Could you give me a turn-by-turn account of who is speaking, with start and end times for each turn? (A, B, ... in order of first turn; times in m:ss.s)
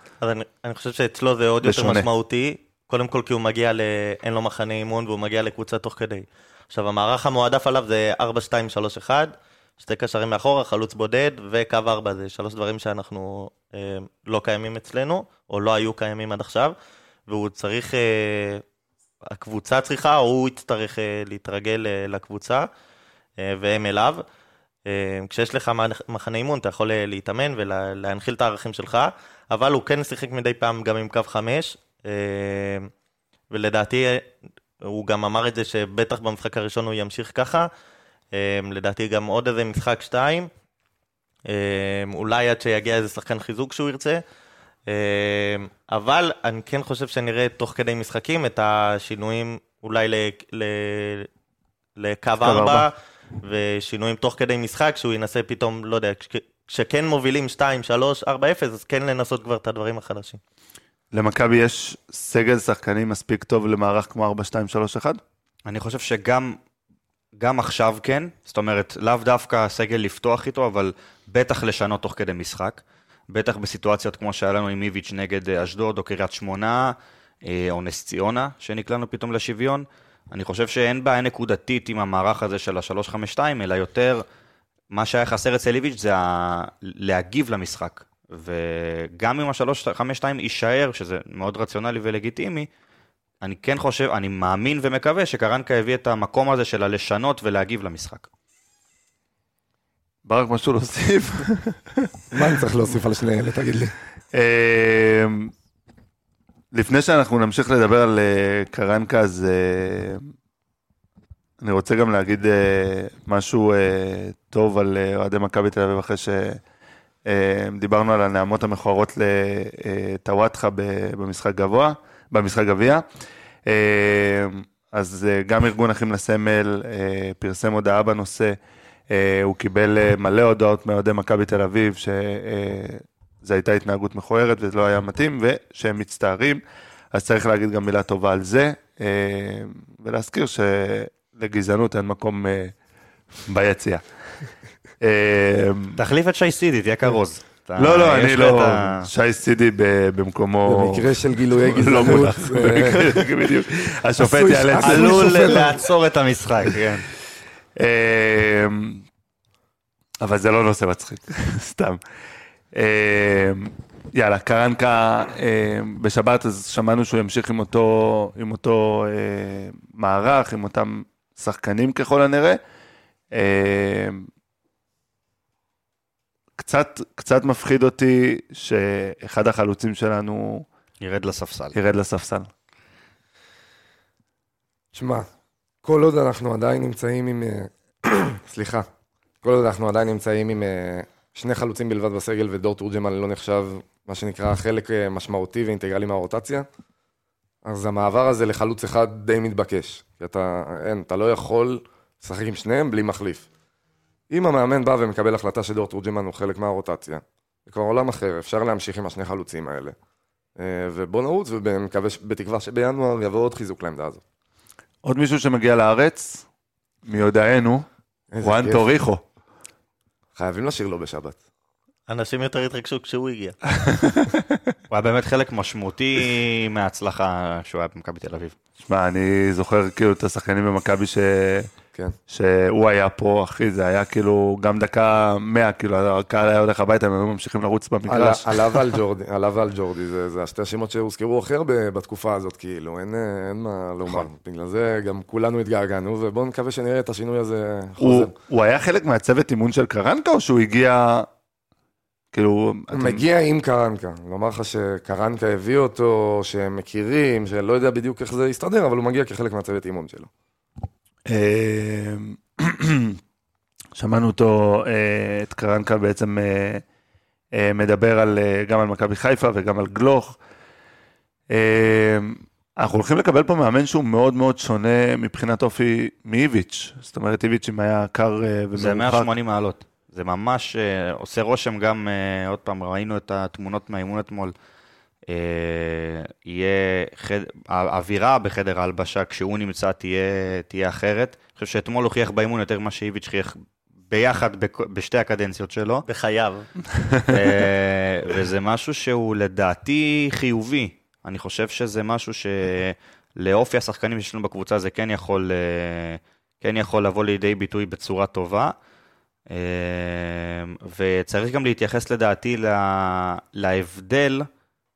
0:00.2-0:16.8 A
0:01.6-0:02.1 B
0:17.3-0:18.6 A
0:19.3-0:22.7 A
0:23.4-0:24.2 A
0:24.9-0:32.9 A
0:33.5-0:34.3 A
0:34.8-0:37.7 A
0:38.3-0:40.5 A
0:41.5-0:44.2 A
0:44.9-0:51.3 A
0:52.0-1:00.4 A
0:52.4-0:52.9 B
1:01.1-1:05.2 B
1:05.7-1:06.6 C
1:07.4-1:24.2 C
1:24.9-1:32.7 C
1:33.4-1:38.3 C
1:40.3-1:42.1 B
1:42.3-1:43.9 D
1:44.3-1:45.5 B
1:46.7-1:50.3 B
1:51.6-1:56.6 B
1:57.3-2:03.0 B
2:03.7-2:08.6 B
2:09.1-2:16.6 B
2:17.1-2:22.8 B
2:23.5-2:24.0 B
2:25.0-2:26.0 B
2:26.0-2:29.1 C
2:27.8-2:31.1 B
2:30.6-2:33.2 D
2:31.7-2:35.6 B
2:34.2-2:35.7 D
2:34.8-2:37.1 C
2:35.1-2:35.9 A
2:37.8-2:39.0 B
2:40.2-2:42.0 B
2:42.7-2:52.6 B
2:53.3-2:54.3 B
2:56.6-3:00.7 B
3:01.0-3:01.8 C
3:01.7-3:02.5 B
3:04.9-3:05.3 D
3:05.8-3:08.9 D
3:09.4-3:16.7 D
3:17.6-3:23.5 D
3:24.3-3:30.0 D
3:30.6-3:34.2 D
3:35.0-3:36.4 B
3:37.1-3:37.9 B
3:38.3-3:38.9 D
3:38.4-3:39.2 B
3:40.4-3:41.4 D
3:42.1-3:43.6 A
3:43.9-3:44.6 B
3:44.9-3:48.6 C
3:48.8-3:51.7 B
3:52.3-3:58.8 B
3:58.1-4:08.3 D
4:08.0-4:11.3 B
4:12.3-4:13.2 B
4:12.9-4:20.3 D
4:21.3-4:23.2 B
4:24.0-4:26.8 B
4:27.5-4:30.4 B
4:31.5-4:39.3 B
4:38.8-4:44.5 C
4:45.3-4:53.6 C
4:54.1-4:56.0 C
4:56.1-4:56.7 A
4:57.0-4:57.3 B
4:57.3-5:08.7 C
5:09.5-5:14.5 C